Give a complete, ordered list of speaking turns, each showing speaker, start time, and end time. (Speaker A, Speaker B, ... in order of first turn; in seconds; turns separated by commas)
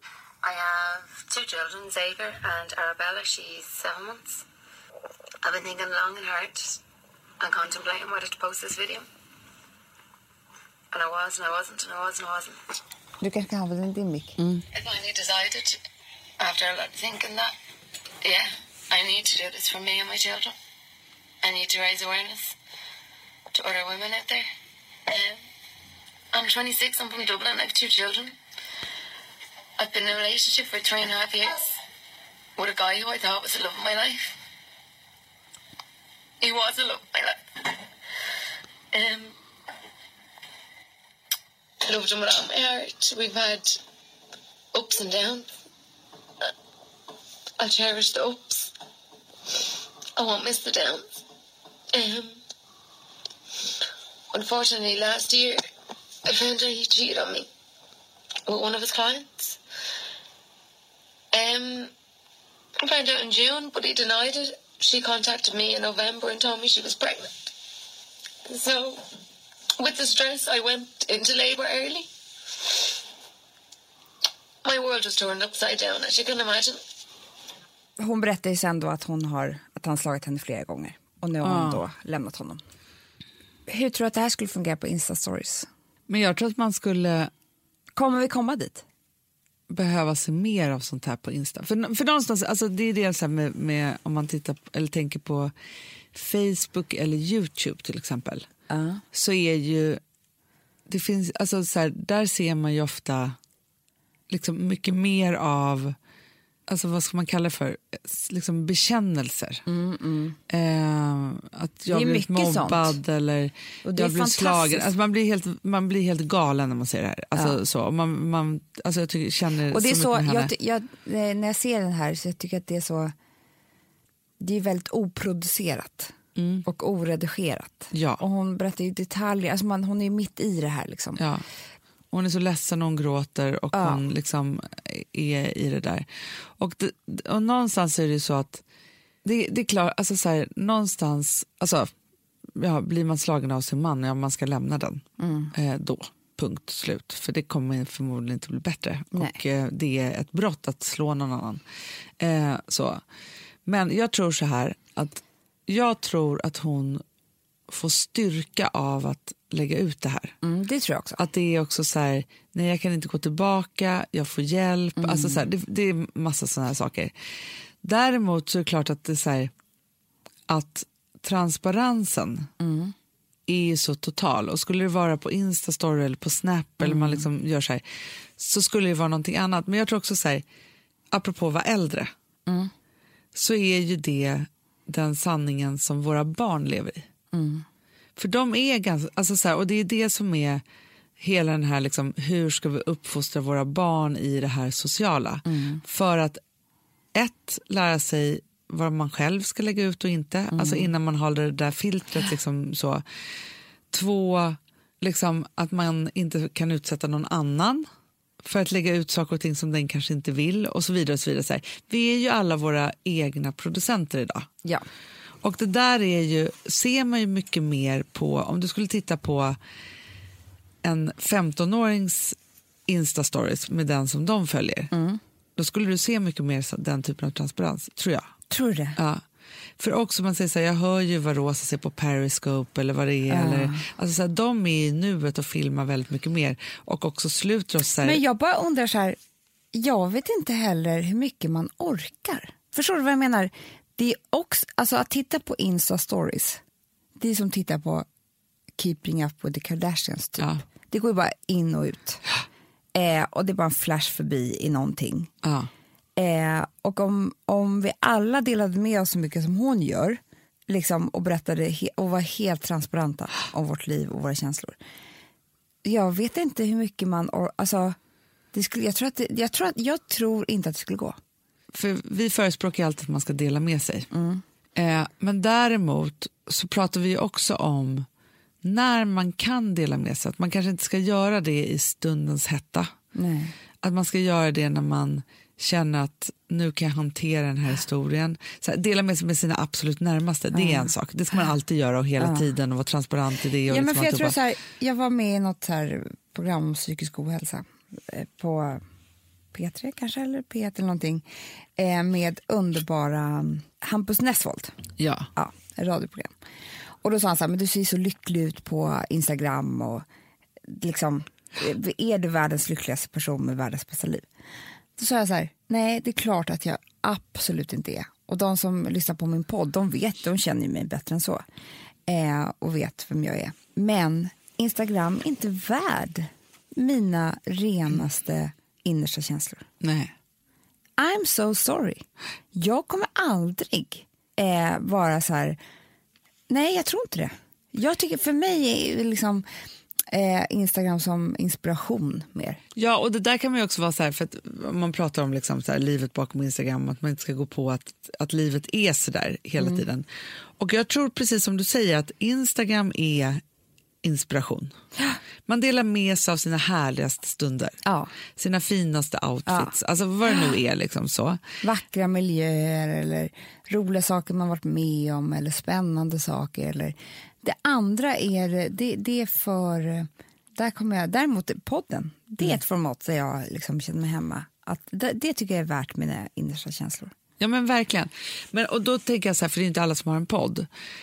Speaker A: 0.4-4.4, Speaker A: 5.4-6.8, Speaker A: 7.4-9.1, Speaker A: 10.9-12.6, Speaker B: 13.2-14.4, Speaker A: 14.7-15.8, Speaker A: 16.4-17.5, Speaker A: 18.2-20.6, Speaker A: 21.4-22.6, Speaker A: 23.5-24.5, Speaker A: 25.1-25.4, Speaker A: 26.3-28.4, Speaker A: 29.8-31.8, Speaker A: 32.6-34.4, Speaker A: 36.4-37.8, Speaker A: 38.9-39.3, Speaker A: 41.8-43.8, Speaker A: 44.7-45.5, Speaker A: 47.6-48.7, Speaker A: 50.2-51.1, Speaker A: 51.9-52.4, Speaker A: 54.3-55.6, Speaker A: 56.2-57.5, Speaker A: 58.5-59.6, Speaker A: 61.3-61.9, Speaker A: 62.8-67.5, Speaker A: 68.5-69.0, Speaker A: 69.8-72.1, Speaker A: 74.6-76.8, Speaker B: 78.0-82.6, Speaker C: 81.4-81.8, Speaker B: 83.7-85.7, Speaker C: 86.1-87.3, Speaker B: 88.0-88.8, Speaker C: 89.7-95.5, Speaker C: 96.1-98.5, Speaker B: 98.7-99.0, Speaker C: 99.1-100.0, Speaker C: 100.9-103.4, Speaker C: 104.3-106.0, Speaker C: 106.7-109.7, Speaker B: 109.7-110.4, Speaker C: 110.5-120.5, Speaker B: 111.9-113.0, Speaker B: 113.8-114.9, Speaker B: 119.7-123.1, Speaker B: 124.4-126.1, Speaker C: 126.4-126.7, Speaker B: 126.7-131.2, Speaker C: 127.9-128.2, Speaker C: 131.2-131.4, Speaker C: 132.1-136.1, Speaker B: 133.7-134.0, Speaker C: 136.6-138.6, Speaker C: 139.2-141.9, Speaker C: 142.6-151.6, Speaker B: 145.2-145.5, Speaker B: 149.1-149.4, Speaker C: 152.2-153.0, Speaker C: 153.7-157.0, Speaker C: 157.7-160.4, Speaker B: 160.4-161.2, Speaker C: 161.2-167.1, Speaker B: 165.0-165.4, Speaker C: 167.8-169.5, Speaker C: 170.5-172.5, Speaker B: 172.6-172.9, Speaker C: 173.5-177.8, Speaker B: 176.8-177.3, Speaker C: 178.4-180.4, Speaker C: 181.1-182.1, Speaker B: 182.5-182.7, Speaker C: 183.3-187.1, Speaker B: 187.3-187.7, Speaker C: 188.2-190.6, Speaker C: 191.2-196.4, Speaker B: 195.5-195.8, Speaker C: 197.1-203.0, Speaker B: 200.5-200.9, Speaker C: 203.9-207.9, Speaker C: 208.4-214.5, Speaker C: 215.4-219.6, Speaker C: 220.8-224.9, Speaker B: 224.9-225.2, Speaker C: 225.6-228.3, Speaker B: 228.5-229.0, Speaker C: 229.0-229.2, Speaker C: 229.8-238.2, Speaker B: 233.3-233.8, Speaker B: 238.0-239.2, Speaker B: 239.7-246.6, Speaker B: 247.2-248.1, Speaker B: 248.8-252.2, Speaker B: 252.9-255.3, Speaker C: 255.4-255.7, Speaker B: 256.2-264.8, Speaker B: 265.8-268.0, Speaker B: 268.5-271.2, Speaker C: 271.7-274.1, Speaker B: 274.1-274.4, Speaker C: 274.8-278.1, Speaker C: 278.6-282.9, Speaker B: 283.1-283.5, Speaker C: 283.8-294.4, Speaker B: 290.5-290.9, Speaker B: 292.2-292.5, Speaker B: 293.7-298.8, Speaker B: 299.5-301.2, Speaker B: 301.8-304.8, Speaker C: 305.0-305.3, Speaker B: 305.4-306.3, Speaker B: 307.0-310.1, Speaker B: 310.7-314.3, Speaker B: 315.0-321.4, Speaker B: 322.1-329.6, Speaker C: 329.8-330.1, Speaker B: 331.0-335.6, Speaker B: 336.5-339.5, Speaker B: 340.1-342.6, Speaker C: 342.8-350.1, Speaker C: 350.6-353.4, Speaker C: 354.0-354.7, Speaker C: 355.5-357.8, Speaker B: 357.9-358.1, Speaker C: 358.4-361.4, Speaker B: 359.5-359.7, Speaker B: 361.6-377.1, Speaker C: 377.4-380.7